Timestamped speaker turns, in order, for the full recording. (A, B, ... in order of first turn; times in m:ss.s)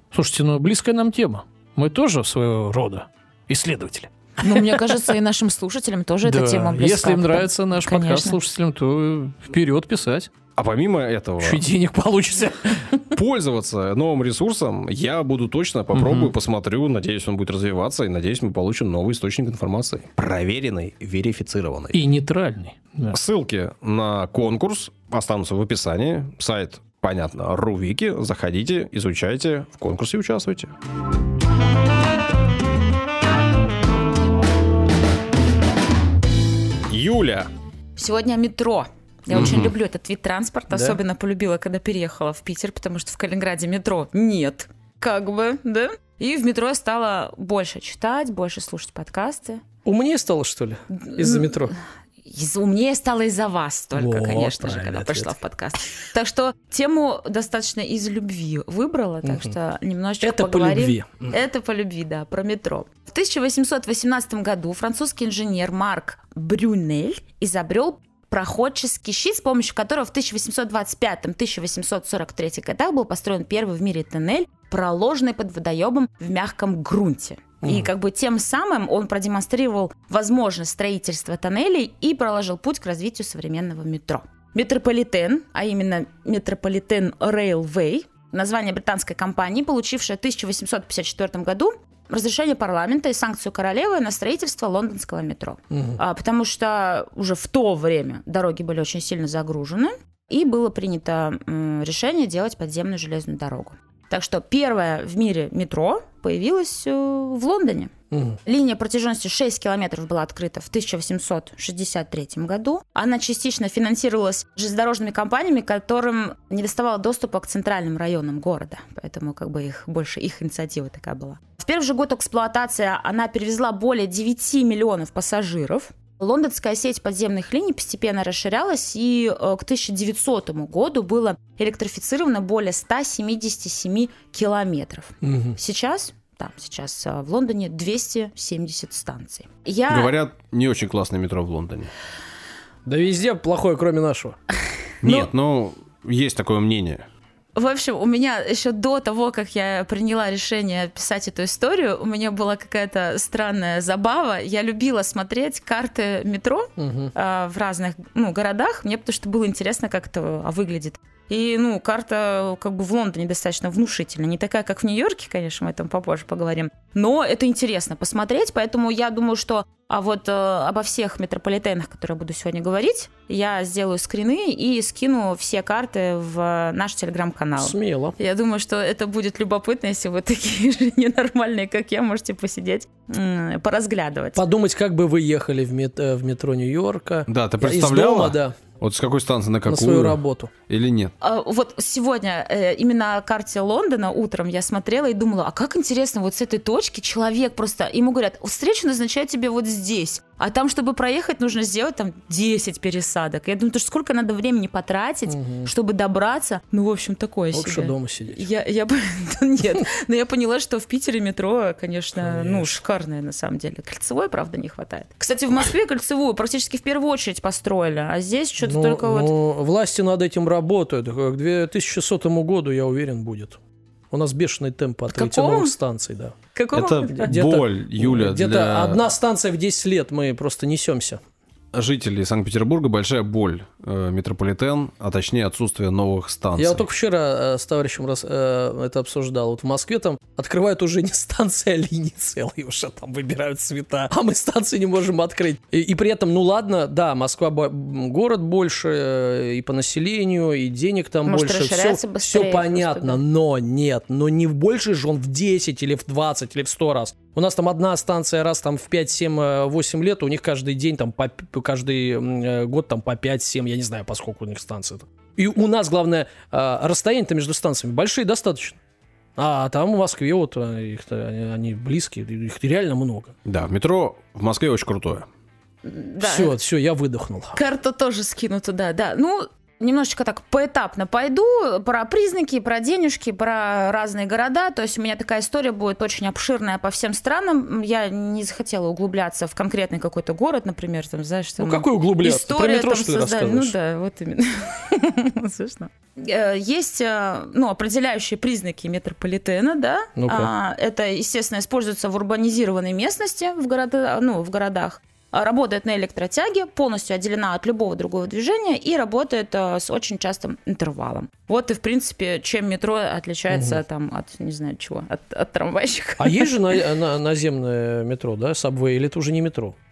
0:00.1-0:04.9 A
0:04.4-0:08.4 B
0:06.2-0:10.3 A
0:10.6-0:11.6 C
0:11.4-0:13.0 A
0:13.1-0:22.0 C
0:15.9-0:16.3 A
0:21.9-0:23.2 A
0:23.1-0:30.7 C
0:36.9-0:37.5 C
0:38.0-0:49.6 B
0:39.3-0:39.7 C
0:40.7-0:41.0 D
0:49.8-0:51.7 D
0:51.0-1:47.9 B
0:54.0-0:55.4 D
0:59.2-0:59.5 D
1:00.2-1:01.4 D
1:17.6-1:17.9 D
1:35.7-1:36.0 D
1:48.1-1:48.4 D
1:48.5-2:20.1 B
2:15.2-2:15.6 D
2:19.9-2:21.9 C
2:22.8-2:24.4 D
2:25.0-2:27.0 C
2:27.6-3:04.4 B
2:36.8-2:37.1 D
2:57.6-2:58.2 D
3:04.4-3:08.6 D
3:07.3-3:11.1 C
3:09.7-3:10.5 D
3:11.2-3:39.3 B
3:25.3-3:25.7 D
3:27.5-3:28.4 D
3:32.2-3:32.8 D
3:38.6-3:43.6 D
3:44.1-3:46.4 D
3:45.1-3:45.8 B
3:46.5-3:47.3 B
3:46.7-3:49.0 C
3:47.1-3:51.2 D
3:51.7-3:56.8 C
3:56.6-4:28.8 D
4:11.2-4:13.2 B
4:29.4-4:33.4 D
4:33.4-4:35.3 C
4:35.8-4:36.5 B
4:36.2-4:37.6 D
4:37.6-5:16.8 B
4:51.6-4:53.8 D
5:00.2-5:00.5 D
5:13.5-5:13.8 D
5:16.2-5:19.8 D